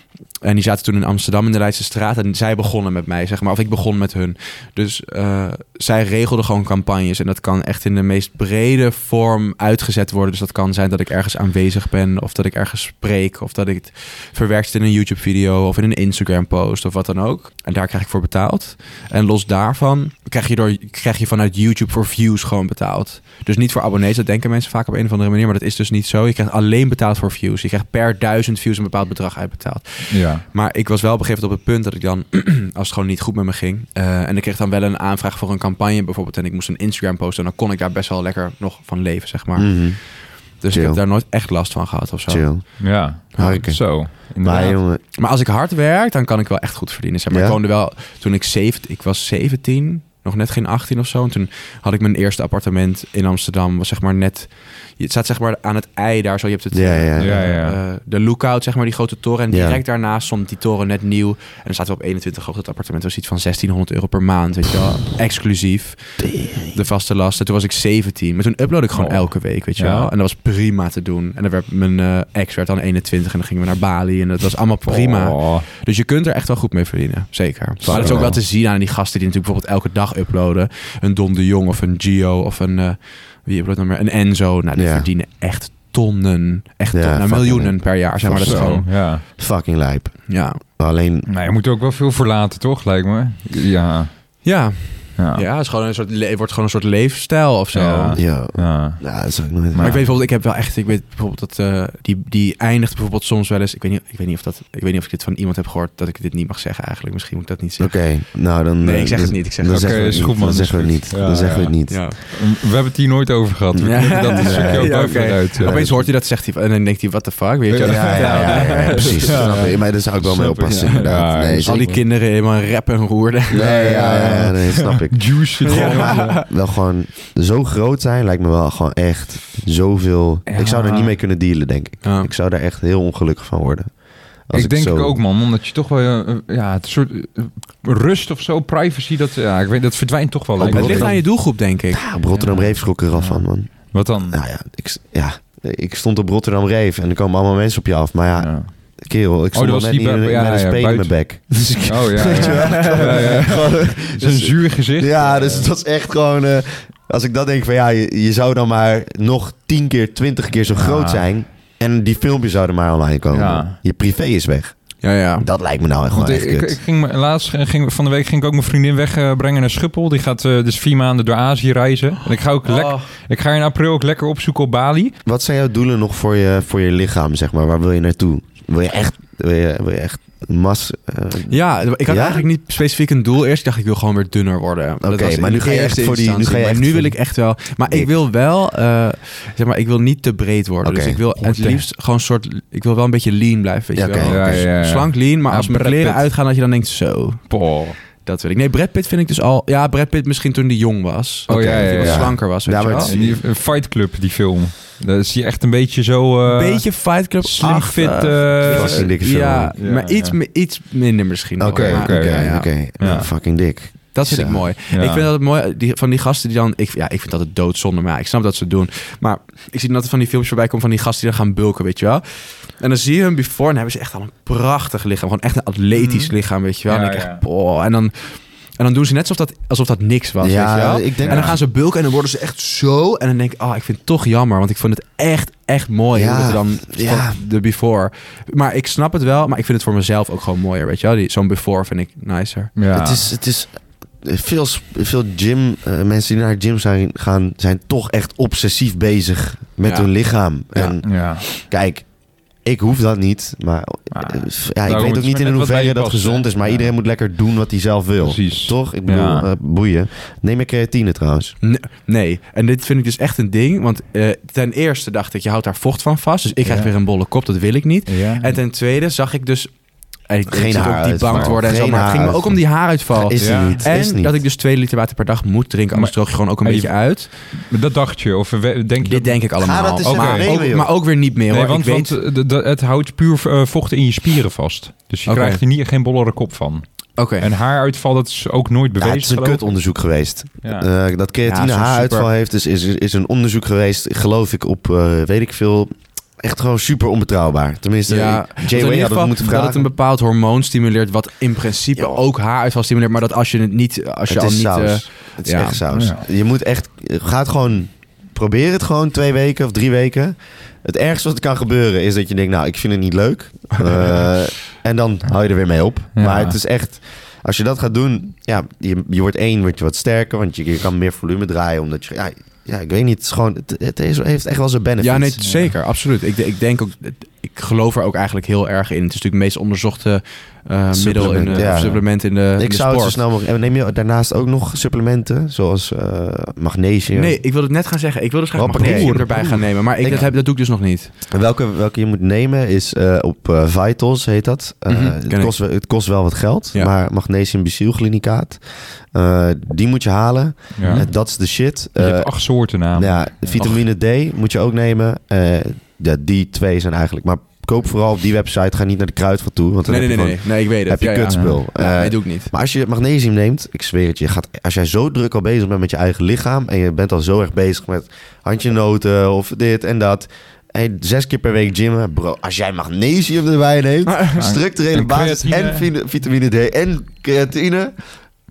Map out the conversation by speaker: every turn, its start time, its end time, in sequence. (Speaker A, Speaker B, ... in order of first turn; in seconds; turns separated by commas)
Speaker A: 0.4-42.8, Speaker B: 30.1-30.4, Speaker C: 39.6-40.0, Speaker C: 40.7-41.0, Speaker C: 42.3-45.0, Speaker B: 42.8-44.8, Speaker A: 43.4-43.6, Speaker A: 45.1-88.8, Speaker C: 47.3-47.6, Speaker C: 56.7-57.4, Speaker B: 57.2-57.8, Speaker C: 59.5-59.8, Speaker C: 66.2-66.7, Speaker B: 68.9-70.1, Speaker B: 74.8-75.6, Speaker C: 77.8-78.4, Speaker B: 77.9-78.2, Speaker C: 84.8-85.1, Speaker C: 86.9-91.3, Speaker B: 88.3-89.2, Speaker A: 90.3-90.6, Speaker B: 91.2-94.1, Speaker A: 94.4-98.2, Speaker B: 95.2-95.4, Speaker B: 97.7-99.0, Speaker C: 98.2-100.0, Speaker B: 99.7-100.0, Speaker A: 99.8-108.2, Speaker C: 107.8-112.0, Speaker A: 108.8-110.3, Speaker B: 109.7-115.8, Speaker A: 111.9-112.2, Speaker C: 113.7-115.1, Speaker A: 113.8-119.8, Speaker C: 115.6-116.1, Speaker B: 117.7-122.0, Speaker C: 117.8-121.9, Speaker A: 120.7-124.9, Speaker C: 123.5-135.2, Speaker B: 125.1-126.4, Speaker A: 125.6-126.5, Speaker B: 130.5-131.1, Speaker A: 132.0-132.3, Speaker B: 134.5-141.2, Speaker C: 140.6-141.3, Speaker A: 140.6-142.1, Speaker C: 141.9-164.8, Speaker B: 142.3-144.4, Speaker B: 148.4-148.7, Speaker B: 149.5-151.1, Speaker B: 151.8-155.7, Speaker A: 152.3-153.2, Speaker B: 160.7-161.2, Speaker B: 163.3-163.8, Speaker A: 165.0-165.5, Speaker C: 165.4-166.8, Speaker B: 166.1-175.1, Speaker A: 172.6-173.1, Speaker C: 175.2-182.4, Speaker A: 181.5-197.5, Speaker C: 185.0-187.2, Speaker C: 190.8-191.2, Speaker B: 191.4-191.8, Speaker C: 193.9-194.7, Speaker B: 194.2-196.2, Speaker B: 197.5-197.9, Speaker A: 198.2-203.2, Speaker B: 201.5-202.4, Speaker C: 201.5-203.4, Speaker B: 203.0-209.1, Speaker A: 206.4-212.7, Speaker C: 208.7-209.8, Speaker B: 209.8-210.4, Speaker C: 211.6-214.7, Speaker B: 211.7-213.3, Speaker A: 214.1-242.7, Speaker B: 214.9-215.3, Speaker B: 225.9-226.3, Speaker B: 226.9-227.4, Speaker C: 230.4-231.6, Speaker B: 231.2-231.6, Speaker C: 236.1-237.3, Speaker B: 242.8-243.3, Speaker C: 242.9-252.1, Speaker B: 250.7-251.4, Speaker C: 252.6-261.5, Speaker B: 254.1-256.9, Speaker B: 258.2-259.5, Speaker A: 261.6-277.3, Speaker B: 266.6-266.9, Speaker B: 268.1-268.5, Speaker C: 270.5-274.4, Speaker B: 273.4-273.8, Speaker B: 275.9-279.4, Speaker A: 279.0-282.1, Speaker C: 279.6-280.9, Speaker B: 280.0-280.5, Speaker B: 281.5-286.8, Speaker A: 285.3-285.6, Speaker A: 287.2-287.5, Speaker B: 287.4-289.7, Speaker C: 289.0-299.9, Speaker A: 291.4-292.3, Speaker A: 298.1-305.8, Speaker C: 304.3-325.4, Speaker B: 305.9-306.2, Speaker B: 316.1-316.6, Speaker A: 325.0-333.2, Speaker B: 325.4-325.7, Speaker C: 330.9-337.4, Speaker A: 337.1-341.1, Speaker C: 338.5-340.3, Speaker B: 338.7-339.2, Speaker C: 341.3-348.6, Speaker A: 344.9-345.5, Speaker C: 349.1-352.3, Speaker B: 350.8-351.1, Speaker A: 350.8-351.1, Speaker B: 352.0-353.6, Speaker C: 352.9-377.9, Speaker A: 353.6-353.8, Speaker A: 359.9-362.5, Speaker A: 374.1-374.4, Speaker B: 374.4-375.9